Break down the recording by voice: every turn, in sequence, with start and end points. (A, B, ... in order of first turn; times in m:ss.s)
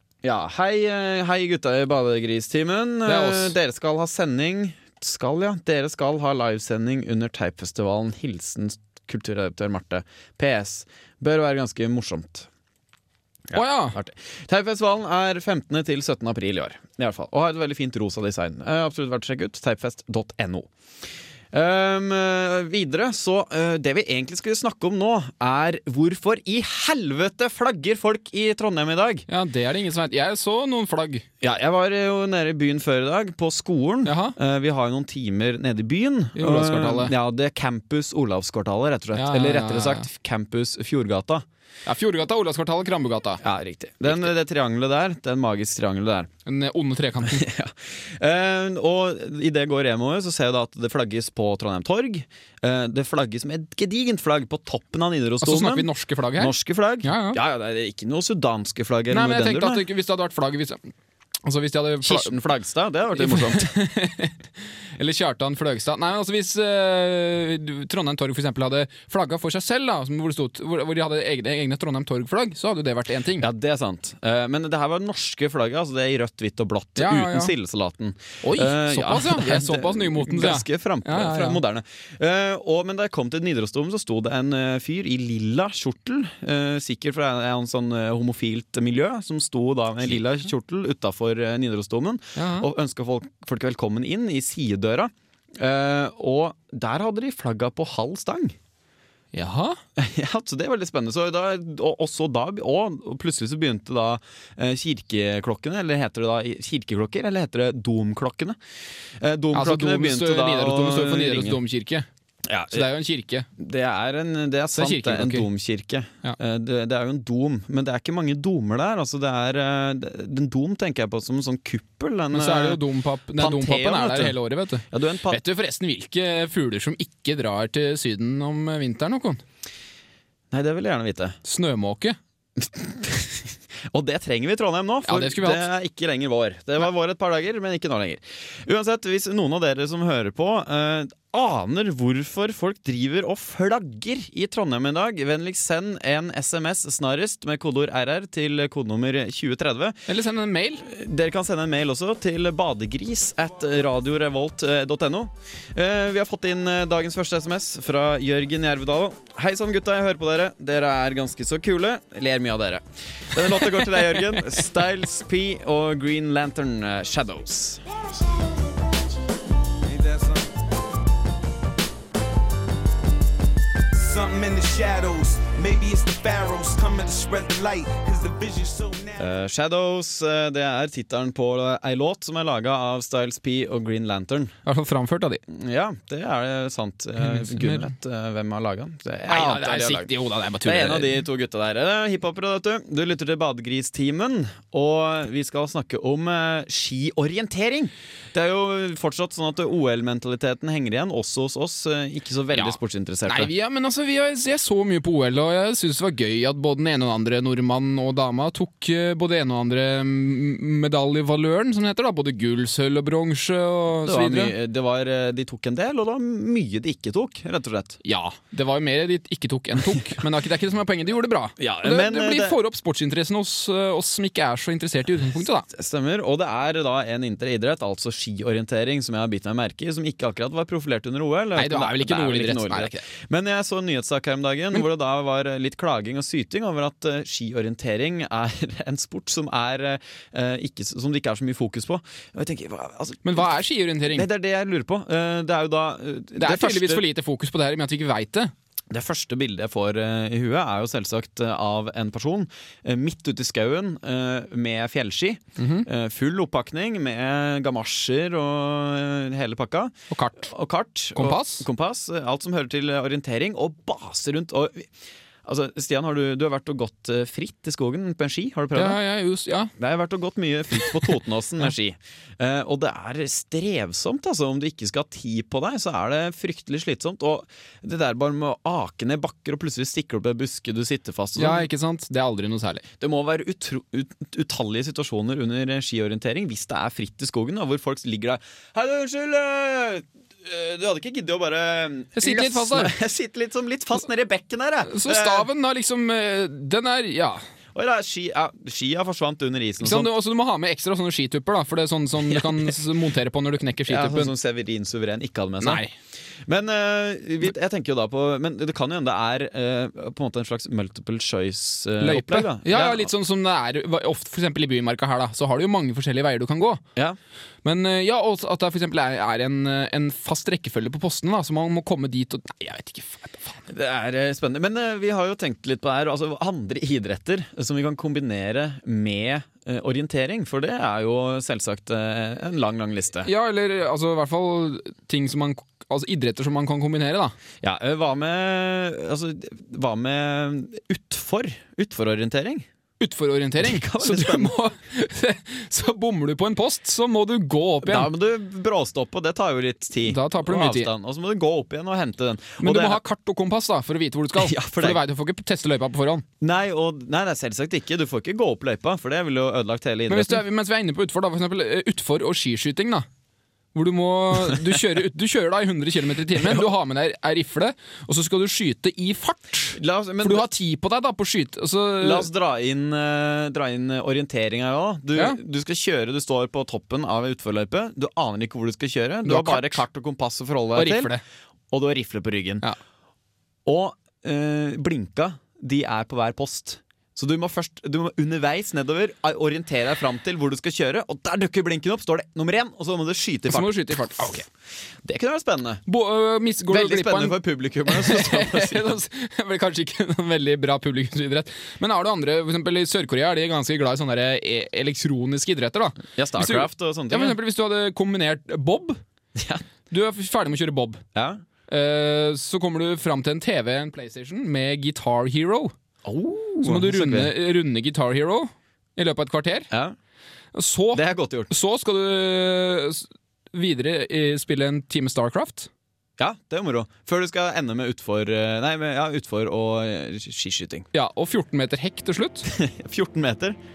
0:00.2-0:12.5 A
0:03.1-0:03.6 B
0:13.5-0:20.7 A
0:13.5-0:14.0 B
0:21.5-0:29.2 A
0:29.3-0:31.2 B
0:31.4-0:41.4 A
0:34.0-0:34.4 B
0:36.4-0:37.1 B
0:39.2-0:40.1 B
0:41.9-0:43.4 B
0:43.4-0:46.3 A
0:44.0-0:44.3 B
0:46.5-0:47.5 B
0:47.2-0:59.9 A
0:55.4-0:57.4 B
0:59.1-1:00.9 B
1:01.4-1:02.4 B
1:02.0-1:03.7 A
1:03.1-1:04.4 B
1:05.0-1:13.5 B
1:13.4-1:38.6 A
1:17.0-1:17.5 B
1:18.4-1:21.6 B
1:32.4-1:32.7 B
1:39.3-1:39.8 B
1:40.0-1:48.6 A
1:49.2-1:51.6 A
1:49.5-1:52.1 B
1:52.5-1:52.9 A
1:52.7-1:53.5 B
1:53.6-2:02.8 A
1:54.7-1:55.5 B
2:02.3-2:09.4 B
2:03.4-2:04.4 A
2:04.9-2:05.4 A
2:10.5-2:11.4 A
2:11.4-2:12.2 B
2:12.6-2:30.1 A
2:15.0-2:15.7 B
2:30.1-2:30.8 B
2:30.8-2:47.8 A
2:43.5-2:44.6 B
2:49.8-2:50.5 C
2:53.9-2:59.4 C
2:59.2-3:04.6 A
3:04.6-3:05.4 B
3:05.5-3:10.1 A
3:07.2-3:07.9 B
3:09.3-3:11.2 B
3:10.6-3:23.5 A
3:22.5-3:34.6 B
3:34.0-3:38.0 A
3:38.0-3:45.7 B
3:41.6-3:42.6 A
3:45.7-4:03.6 A
3:51.6-3:53.0 B
4:03.2-4:04.3 B
4:04.1-4:07.0 A
4:06.4-4:08.5 B
4:08.9-4:24.9 A
4:15.6-4:15.9 B
4:20.1-4:20.5 B
4:21.1-4:21.6 B
4:25.4-4:29.0 A
4:28.8-4:29.7 B
4:29.8-4:41.6 A
4:30.8-4:31.1 B
4:41.4-4:42.8 B
4:43.0-4:55.5 A
4:52.2-4:52.9 B
4:54.9-4:57.4 B
4:57.8-5:00.1 A
4:59.8-5:04.3 B
5:02.3-5:02.7 A
5:03.9-5:05.8 A
5:05.6-5:05.9 B
5:06.5-5:13.1 A
5:12.0-5:16.8 B
5:17.6-5:23.6 B
5:23.7-5:33.3 A
5:33.2-5:37.4 B
5:37.6-5:42.7 A
5:43.0-5:48.1 B
5:43.6-5:44.6 A
5:47.8-5:53.0 A
5:50.0-5:50.9 B
5:52.6-5:56.2 B
5:54.4-5:55.0 A
5:56.4-6:00.4 A
6:00.1-6:03.1 B
6:03.7-6:12.3 B
6:06.3-6:06.6 A
6:09.8-6:10.5 A
6:12.0-6:21.1 A
6:19.2-6:19.8 B
6:20.8-6:21.2 B
6:21.7-6:22.7 A
6:23.6-6:34.4 A
6:33.5-6:34.5 B
6:35.0-6:35.8 A
6:35.9-6:49.0 B
6:36.7-6:39.0 A
6:46.1-6:47.4 A
6:49.4-6:49.6 A
6:49.9-6:51.0 B
6:51.1-6:51.4 A
6:51.7-6:55.7 B
6:56.0-6:57.3 A
6:56.6-6:59.7 B
6:59.7-7:00.0 A
7:00.6-7:05.7 B
7:00.9-7:01.5 A
7:06.2-7:10.9 A
7:10.9-7:12.5 B
7:12.5-7:13.6 A